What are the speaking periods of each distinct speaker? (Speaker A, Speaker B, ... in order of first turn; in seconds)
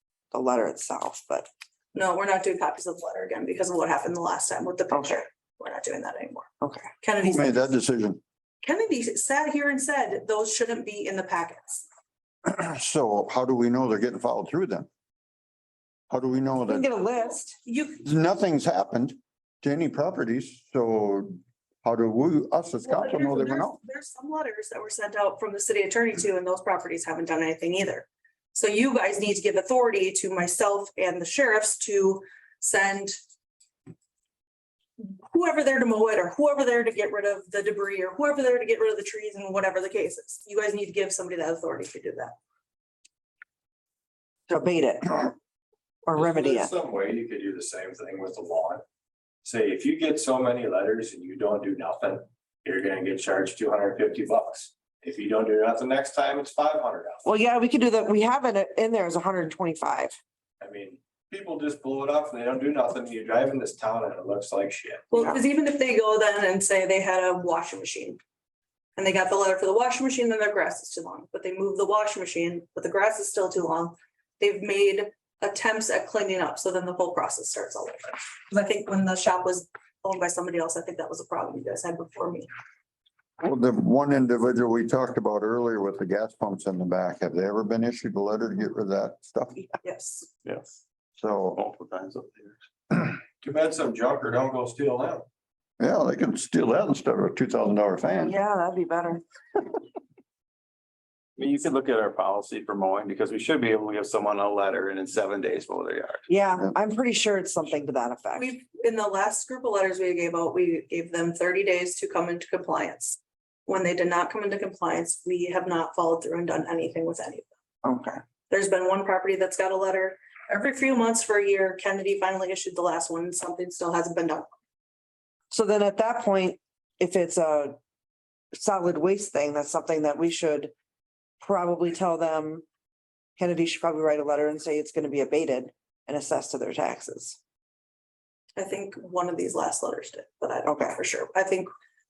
Speaker A: 0.3-1.5, 4.9-5.2, 6.6-6.9, 16.7-17.6, 44.5-45.3, 46.1-46.7, 57.2-60.1, 98.2-99.2, 106.3-108.5, 117.8-118.2, 125.5-127.8, 128.5-130.7, 131.4-132.7, 133.4-137.4, 140.7-141.0
Speaker B: 1.9-6.5, 7.0-7.7, 8.6-11.8, 17.2-18.1, 22.9-33.2, 35.0-42.3, 65.1-68.2, 69.0-82.5, 89.8-90.3, 108.4-117.5, 118.5-124.5, 138.6-141.7
Speaker C: 7.2-8.2, 12.5-14.9, 16.1-16.9, 18.0-23.8, 83.4-89.7, 91.2-91.6, 95.8-98.4
Speaker D: 46.1-48.8, 49.4-57.2, 60.6-65.2, 93.4-95.2
Speaker E: 90.4-90.8, 91.5-92.6, 101.4-106.3